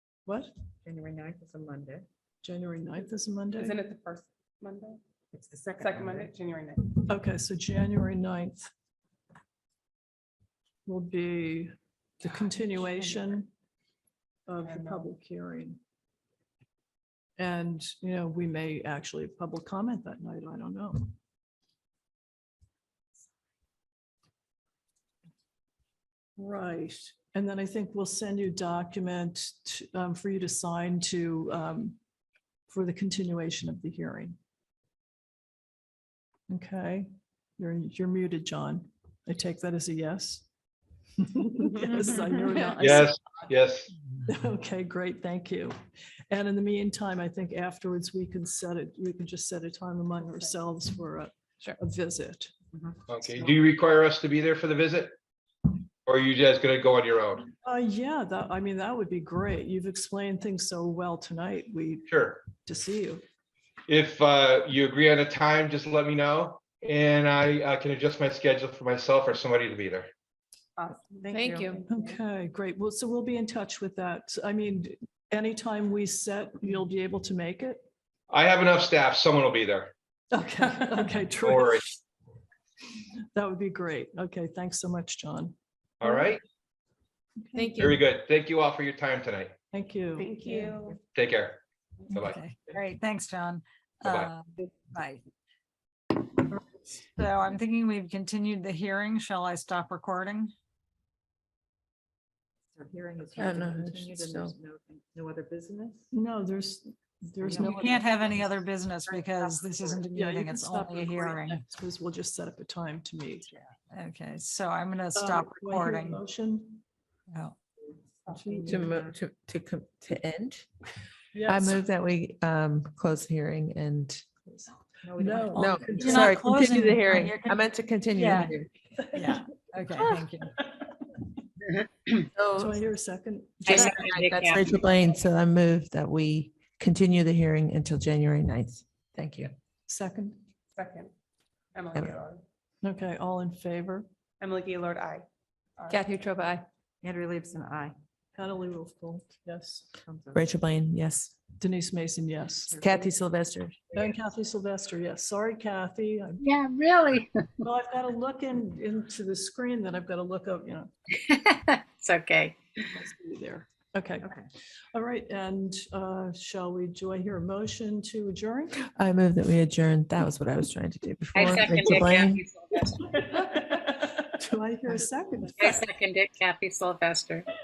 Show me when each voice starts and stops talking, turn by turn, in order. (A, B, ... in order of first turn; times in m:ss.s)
0:00.2-0:00.5 A
0:00.8-0:02.1 B
0:02.4-0:03.8 A
0:03.5-0:05.0 C
0:05.3-0:06.3 B
0:05.7-0:07.0 C
0:07.0-0:08.7 A
0:10.8-0:13.5 A
0:14.5-0:15.8 A
0:14.6-0:15.1 C
0:17.4-0:21.1 A
0:26.4-0:32.0 A
0:32.7-0:34.4 A
0:36.5-0:40.4 A
0:41.2-0:43.5 A
0:41.9-0:42.2 C
0:42.8-0:43.9 D
0:44.3-0:45.7 A
0:46.3-0:52.5 A
0:53.1-0:55.1 D
0:56.0-0:57.5 D
0:57.6-1:02.1 A
1:02.1-1:02.4 D
1:02.6-1:03.2 A
1:03.9-1:10.1 D
1:10.8-1:12.1 C
1:11.3-1:11.8 B
1:11.9-1:17.8 A
1:18.3-1:19.9 D
1:20.3-1:22.0 A
1:21.4-1:21.9 D
1:23.3-1:26.3 A
1:26.0-1:26.4 D
1:27.4-1:27.9 A
1:27.6-1:28.0 B
1:27.8-1:29.5 D
1:29.7-1:30.4 A
1:30.2-1:31.0 C
1:30.5-1:30.9 B
1:31.1-1:32.4 D
1:32.1-1:35.2 E
1:34.0-1:34.3 D
1:37.2-1:40.5 E
1:42.7-1:46.0 B
1:43.4-1:44.5 F
1:46.1-1:48.1 A
1:47.5-1:51.6 E
1:47.5-1:47.8 B
1:50.1-1:53.5 A
1:53.9-1:56.2 E
1:55.1-1:56.8 A
1:57.3-1:57.6 E
1:58.3-1:59.0 A
1:58.6-2:00.7 F
2:01.3-2:01.8 A
2:01.4-2:04.2 F
2:05.0-2:06.0 B
2:05.2-2:06.3 A
2:05.5-2:08.7 F
2:06.0-2:07.6 E
2:08.2-2:08.5 E
2:09.1-2:10.6 E
2:12.4-2:12.8 F
2:12.5-2:14.0 A
2:13.6-2:14.6 G
2:13.6-2:19.5 F
2:19.9-2:20.4 A
2:20.7-2:21.1 C
2:21.7-2:22.4 C
2:21.9-2:22.2 F
2:22.8-2:24.1 A
2:24.4-2:25.2 C
2:25.8-2:26.2 C
2:25.9-2:28.0 B
2:28.3-2:29.9 A
2:30.0-2:30.4 B
2:30.3-2:31.3 F
2:31.6-2:32.8 A
2:32.7-2:33.1 B
2:32.8-2:33.8 F
2:33.9-2:36.4 A
2:36.4-2:37.5 G
2:37.6-2:40.9 A
2:41.3-2:42.6 G
2:42.8-2:44.3 A
2:44.2-2:44.5 B
2:44.9-2:48.8 A
2:49.0-2:52.4 F
2:51.3-2:53.5 G
2:53.5-2:55.8 A
2:55.6-2:57.5 G